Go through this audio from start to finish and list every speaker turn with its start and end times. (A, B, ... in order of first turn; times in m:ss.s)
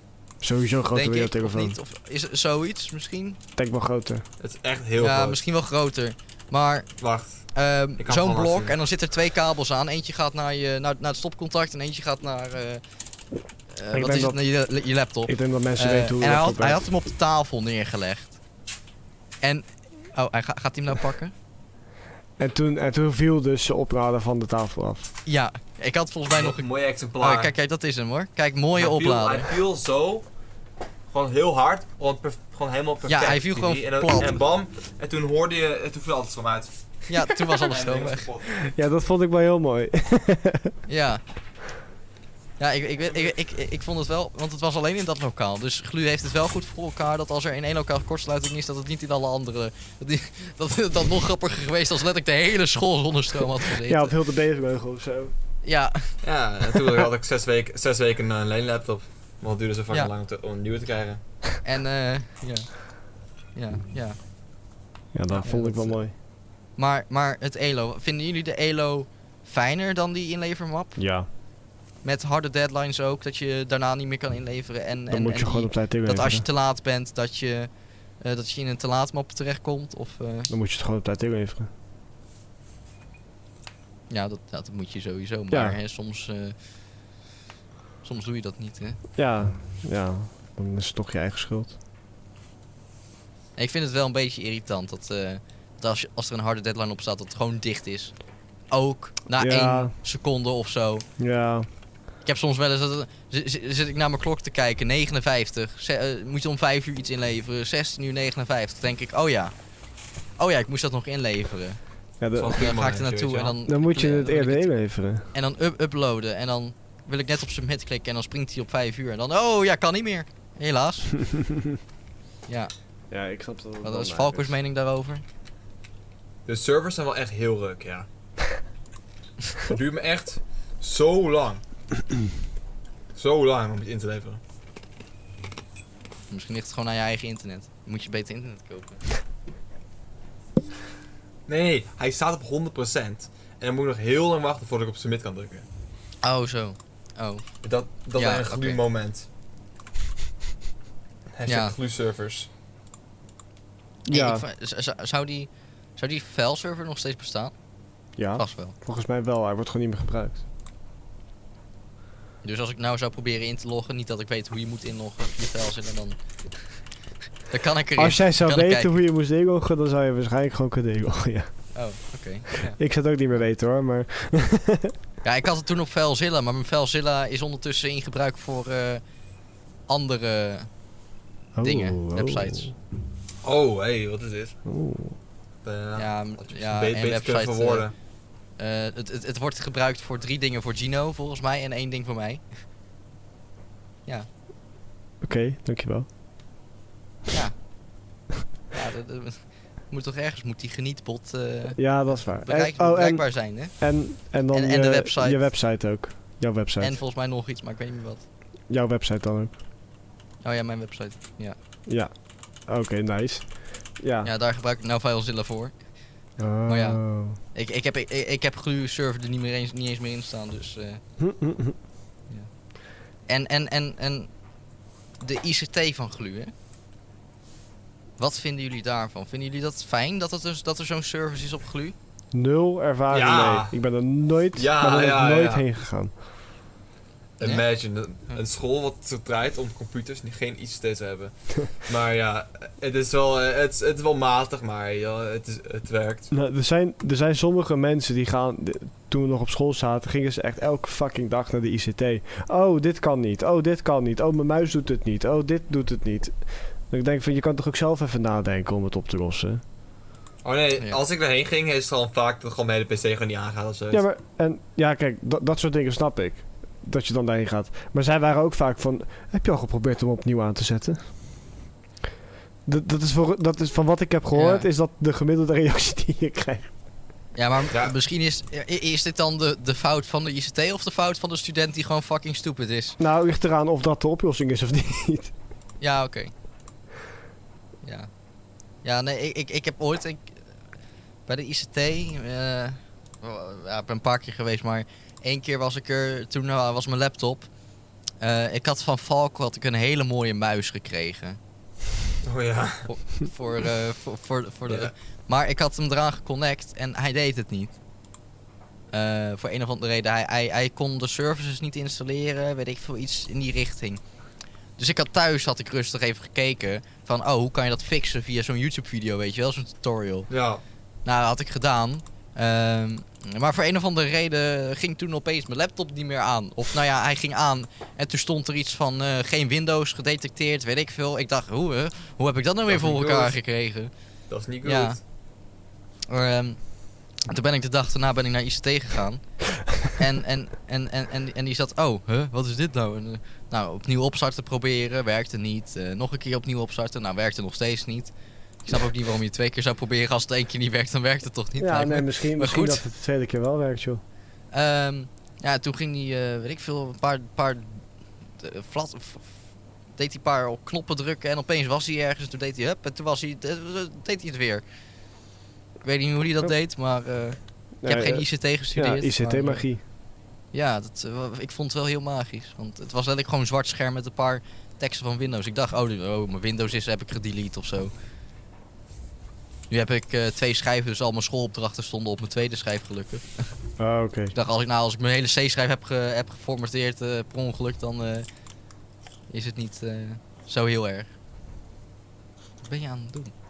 0:00.4-0:01.8 A
0:00.9-0:03.4 B
0:03.6-0:04.2 A
0:04.4-0:05.4 C
0:05.0-0:06.9 B
0:07.0-0:08.7 C
0:07.5-0:12.8 B
0:13.7-0:18.4 B
0:13.9-0:14.4 A
0:15.2-0:16.8 A
0:19.4-0:21.3 B
0:22.4-0:25.1 A
0:25.2-0:29.5 B
0:26.3-0:27.5 C
0:28.8-0:30.2 C
0:31.1-0:36.7 C
0:33.1-0:34.4 B
0:37.1-0:38.3 B
0:37.3-0:38.6 C
0:38.6-0:40.7 A
0:40.9-0:41.2 B
0:42.6-0:54.1 B
0:53.8-0:55.3 A
0:55.6-0:56.2 B
0:56.2-1:01.2 C
1:01.6-1:04.2 B
1:05.1-1:06.1 A
1:05.3-1:06.0 B
1:06.8-1:11.0 B
1:11.0-1:11.3 A
1:12.0-1:20.5 B
1:15.1-1:16.4 A
1:20.5-1:21.7 A
1:24.1-1:26.6 B
1:25.5-1:25.8 A
1:28.0-1:29.0 B
1:29.2-1:31.8 A
1:33.6-1:41.0 B
1:39.4-1:39.9 A
1:41.2-1:41.7 A
1:42.2-1:49.5 B
1:50.4-1:51.8 B
1:52.2-1:52.6 A
1:52.3-1:53.6 C
1:52.5-1:54.7 B
1:53.6-1:55.2 A
1:55.3-2:01.2 B
2:02.5-2:02.7 B
2:03.1-2:04.5 A
2:03.8-2:05.2 B
2:06.4-2:08.1 C
2:09.6-2:11.6 C
2:13.1-2:14.4 C
2:16.3-2:19.0 B
2:21.5-2:25.6 C
2:26.2-2:27.5 B
2:27.6-2:29.2 C
2:28.1-2:28.8 B
2:31.3-2:32.5 C
2:31.4-2:31.7 B
2:34.0-2:34.4 A
2:34.1-2:37.5 B
2:38.2-2:40.4 A
2:38.4-2:38.8 B
2:42.4-2:46.8 B
2:47.5-2:48.9 B
2:48.0-2:51.9 A
2:51.7-2:52.8 B
2:52.8-2:54.9 A
2:55.2-2:59.0 B
2:59.9-3:00.7 B
3:01.6-3:02.7 A
3:01.6-3:02.7 B
3:03.4-3:04.6 C
3:04.6-3:05.2 A
3:05.6-3:07.9 C
3:06.0-3:08.0 B
3:08.6-3:12.4 B
3:15.2-3:16.0 A
3:17.3-3:17.6 B
3:18.7-3:25.4 B
3:21.8-3:27.0 A
3:26.8-3:28.2 B
3:28.7-3:29.5 A
3:30.4-3:31.6 B
3:31.9-3:34.3 A
3:34.2-3:35.9 B
3:36.4-3:37.4 A
3:36.6-3:41.0 B
3:41.2-3:41.8 A
3:43.2-3:44.3 B
3:45.2-3:46.5 B
3:48.2-3:51.9 B
3:52.3-3:56.1 A
3:53.1-3:53.7 C
3:54.5-3:55.6 C
3:57.4-4:06.3 C
3:57.4-3:57.7 B
4:06.3-4:19.6 A
4:20.4-4:24.0 C
4:23.9-4:31.0 A
4:32.6-4:36.7 A
4:34.3-4:34.7 B
4:37.3-4:43.0 B
4:43.0-4:45.3 A
4:45.8-4:46.3 B
4:47.8-4:48.1 B
4:48.8-4:50.4 B
4:51.2-4:57.5 B
4:58.2-5:01.4 B
5:02.2-5:03.1 C
5:02.8-5:07.8 B
5:04.7-5:04.9 C
5:08.9-5:14.0 B
5:14.8-5:20.3 B
5:20.3-5:20.6 C
5:21.0-5:33.9 B
5:32.7-5:33.4 C
5:34.3-5:35.0 C
5:34.6-5:35.0 B
5:36.1-5:52.8 B
5:51.6-5:54.0 A
5:54.5-6:04.6 B
6:05.8-6:09.7 B
6:07.8-6:09.8 A
6:10.5-6:17.9 B
6:19.7-6:23.6 B
6:23.8-6:24.3 A
6:24.3-6:28.3 B
6:29.3-6:31.1 B
6:32.6-6:33.3 B